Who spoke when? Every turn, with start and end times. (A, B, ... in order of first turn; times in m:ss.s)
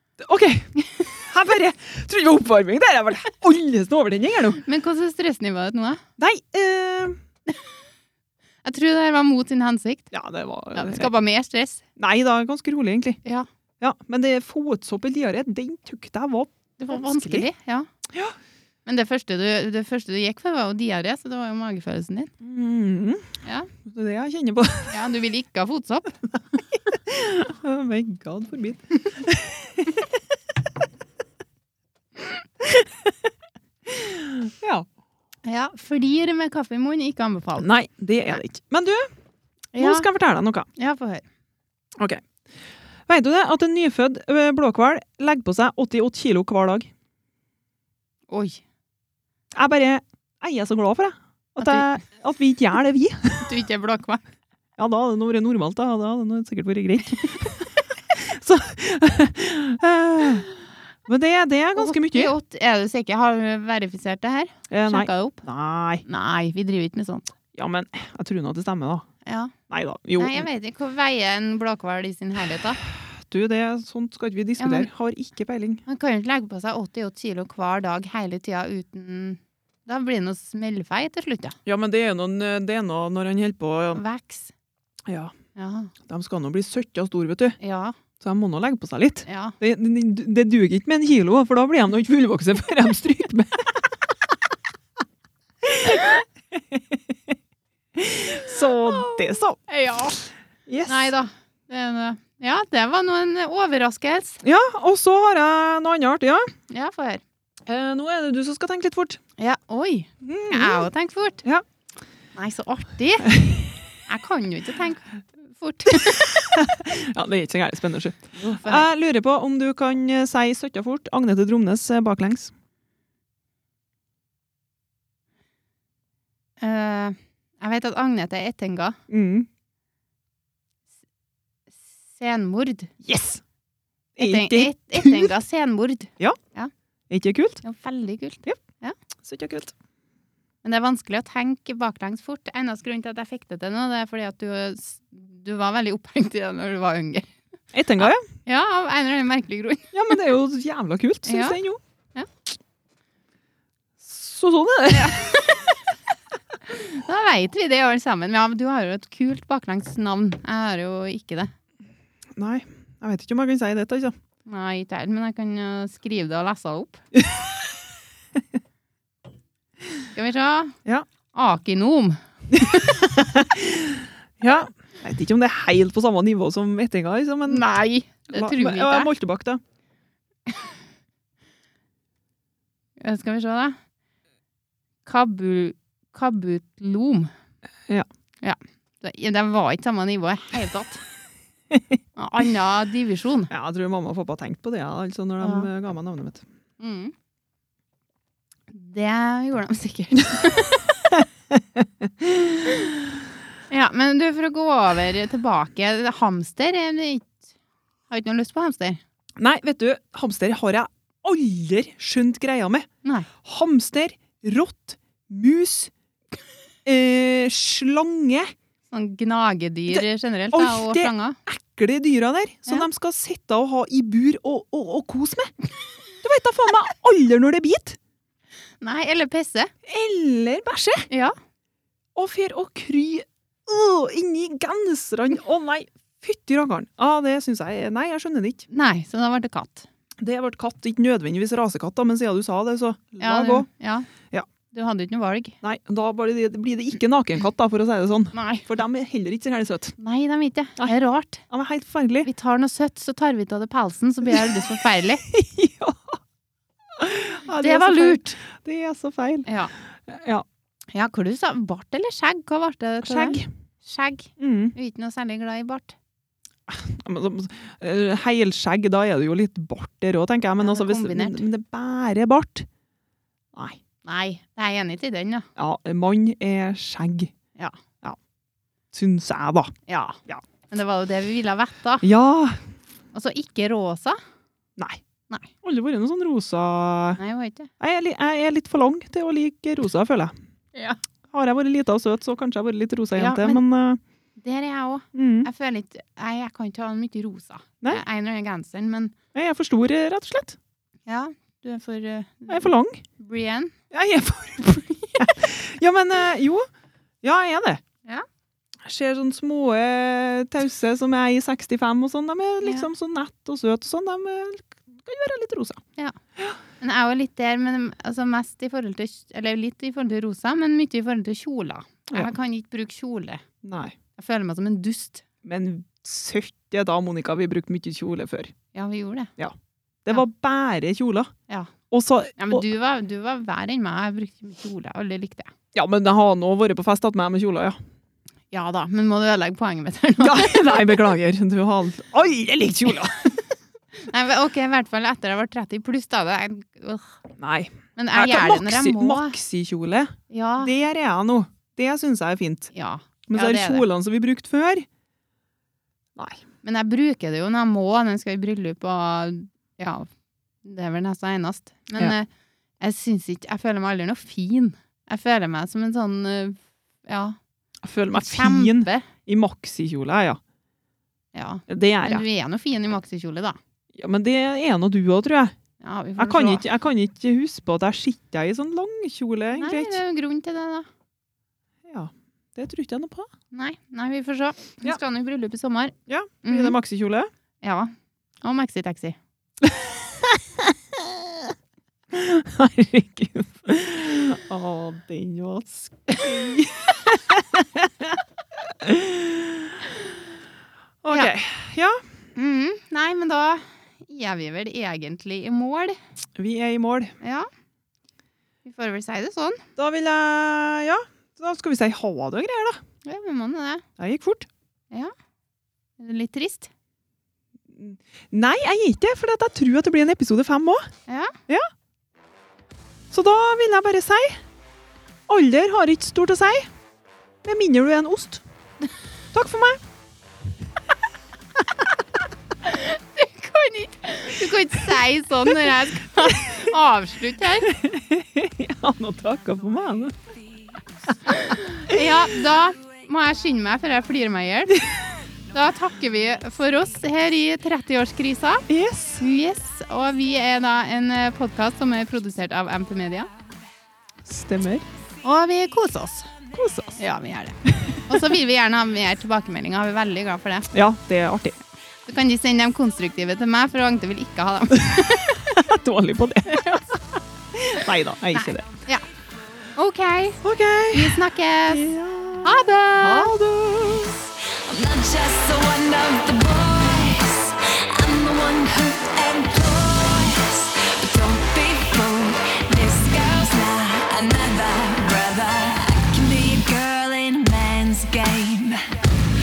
0:00.2-0:04.6 A
0:04.6-0:06.0 B
0:06.2-0:07.2 A
0:08.6-0:10.1 B
0:10.1-0:11.1 A
0:10.7-0:11.8 B
0:12.0-0:13.2 A
0:13.8-0:17.5 A
0:16.8-0:17.9 B
0:18.1-0:18.4 A
0:18.8-0:22.3 B
0:22.4-0:23.3 A
0:23.4-0:23.7 B
0:23.8-0:25.0 A
0:24.9-0:26.2 B
0:26.3-0:30.1 A
0:32.6-0:33.3 A
0:33.9-0:34.9 A
0:35.4-0:37.7 B
0:37.6-0:39.1 A
0:39.7-0:40.1 B
0:39.8-0:40.7 A
0:40.8-0:41.2 B
0:42.0-0:42.2 A
0:43.1-0:46.9 A
0:48.3-0:48.6 B
0:49.5-0:53.5 A
0:51.6-0:51.9 B
0:53.4-0:54.2 B
0:54.8-1:00.5 A
1:01.0-1:02.3 A
1:01.8-1:05.4 B
1:04.7-1:06.0 A
1:06.0-1:07.3 B
1:07.5-1:09.0 A
1:09.2-1:09.5 B
1:09.7-1:10.5 A
1:10.2-1:12.8 B
1:13.1-1:15.8 A
1:14.6-1:14.9 B
1:15.9-1:21.6 B
1:21.6-1:24.0 A
1:23.9-1:24.5 B
1:25.1-1:25.3 A
1:25.6-1:25.9 B
1:26.0-1:27.6 A
1:27.6-1:28.0 B
1:28.2-1:33.9 A
1:29.2-1:29.6 B
1:35.6-1:37.3 A
1:37.9-1:39.6 A
1:38.8-1:40.2 B
1:40.7-1:41.1 A
1:40.9-1:44.4 B
1:44.4-1:46.5 A
1:46.7-1:47.2 B
1:47.6-1:49.2 A
1:49.4-1:51.4 B
1:50.2-1:50.9 A
1:52.3-1:53.4 B
1:53.3-1:53.7 A
1:54.1-1:56.3 B
1:56.0-2:02.5 A
1:58.4-1:58.8 B
2:06.6-2:09.0 B
2:09.1-2:09.5 A
2:12.1-2:12.9 B
2:13.0-2:13.4 A
2:14.2-2:15.3 A
2:14.2-2:16.7 B
2:17.1-2:17.6 A
2:17.6-2:18.9 B
2:19.2-2:19.7 A
2:20.6-2:27.3 B
2:27.7-2:28.2 A
2:28.0-2:29.9 B
2:29.9-2:31.8 A
2:31.2-2:31.6 B
2:34.0-2:35.4 A
2:34.9-2:35.7 B
2:36.7-2:41.5 B
2:42.3-2:44.1 A
2:44.4-2:47.0 B
2:47.2-2:47.5 A
2:50.1-2:50.8 B
2:51.3-2:53.0 B
2:52.5-2:57.6 A
2:57.5-2:59.1 B
2:58.3-2:59.6 A
3:03.0-3:03.8 B
3:05.0-3:07.3 B
3:08.4-3:11.0 B
3:12.2-3:13.5 B
3:13.5-3:16.4 A
3:15.4-3:15.7 B
3:16.8-3:17.1 B
3:18.7-3:21.0 B
3:21.6-3:22.7 A
3:23.7-3:27.4 B
3:28.1-3:29.0 B
3:29.4-3:32.9 A
3:33.0-3:33.3 B
3:33.4-3:35.9 A
3:36.8-3:38.5 A
3:38.9-3:41.4 B
3:39.9-3:45.5 A
3:46.2-3:48.0 A
3:48.8-3:49.7 B
3:49.8-3:51.1 A
3:52.2-3:58.7 A
3:58.7-3:59.9 B
4:00.2-4:03.7 A
4:03.2-4:04.1 B
4:04.7-4:05.6 B
4:05.6-4:10.0 A
4:08.3-4:08.7 B
4:10.0-4:11.4 B
4:11.5-4:12.3 A
4:12.2-4:15.2 B
4:15.2-4:16.2 A
4:17.0-4:19.5 A
4:17.5-4:18.4 B
4:19.4-4:19.7 B
4:20.1-4:20.4 A
4:20.9-4:26.0 B
4:23.0-4:23.5 A
4:24.4-4:24.7 A
4:26.7-4:32.7 A
4:30.6-4:31.4 B
4:33.5-4:33.8 A
4:34.0-4:35.5 B
4:35.6-4:37.3 A
4:38.9-4:39.8 A
4:39.9-4:42.0 B
4:42.0-4:42.6 A
4:43.1-4:44.2 B
4:45.6-4:47.2 A
4:47.2-4:47.7 B
4:47.8-4:50.3 A
4:51.3-4:54.0 A
4:53.2-4:53.6 B
4:54.4-4:59.1 B
4:55.1-4:55.5 A
4:59.3-5:00.6 A
5:01.1-5:03.7 B
5:02.5-5:03.0 A
5:03.9-5:06.6 A
5:07.2-5:07.8 A
5:08.8-5:15.8 A
5:12.6-5:12.9 B
5:16.8-5:23.4 B
5:23.6-5:24.0 A
5:24.2-5:25.2 B
5:25.4-5:28.5 A
5:28.7-5:29.3 B
5:29.4-5:31.3 A
5:31.5-5:31.7 B
5:31.9-5:32.6 A
5:32.4-5:35.5 B
5:35.7-5:37.8 A
5:38.5-5:41.0 B
5:40.2-5:43.4 A
5:44.0-5:47.2 B
5:47.4-5:52.7 A
5:48.0-5:49.4 B
5:50.3-5:50.7 B
5:52.7-5:53.8 B
5:53.3-5:54.9 A
5:56.6-6:00.1 B
6:00.6-6:02.3 B
6:02.8-6:07.4 B
6:07.8-6:10.4 A
6:08.1-6:09.1 B
6:11.3-6:13.6 B
6:11.7-6:12.2 A
6:13.9-6:15.5 A
6:15.8-6:16.6 B
6:16.2-6:20.0 A
6:19.6-6:20.9 B
6:21.9-6:23.3 A
6:23.5-6:26.8 B
6:26.1-6:27.3 A
6:27.6-6:29.2 B
6:29.6-6:31.5 A
6:32.1-6:38.2 A
6:38.7-6:39.9 A
6:41.0-6:42.0 A
6:42.4-6:46.0 B
6:46.4-6:47.1 A
6:47.2-6:47.5 B
6:48.6-6:49.7 B
6:49.8-6:52.8 A
6:53.0-6:53.8 B
6:54.0-6:54.5 A
6:56.0-6:56.7 B
6:57.7-7:00.9 A
7:01.1-7:01.3 B
7:03.1-7:04.4 A
7:05.3-7:06.7 A
7:07.4-7:08.4 A
7:09.3-7:09.8 A
7:12.6-7:17.7 B
7:16.2-7:16.6 A
7:17.6-7:20.1 A
7:21.3-7:24.8 B
7:25.5-7:28.6 B
7:28.7-7:29.2 A
7:29.2-7:33.3 B
7:34.2-7:34.8 A
7:35.2-7:36.3 B
7:36.6-7:37.0 A
7:37.0-7:40.7 B
7:40.7-7:41.6 A
7:42.0-7:45.5 B
7:45.0-7:46.7 A
7:46.5-7:46.8 B
7:47.5-7:48.7 A
7:48.3-7:49.0 B
7:49.8-7:51.8 B
7:50.4-7:54.2 A
7:52.4-7:53.3 B
7:54.5-8:08.9 C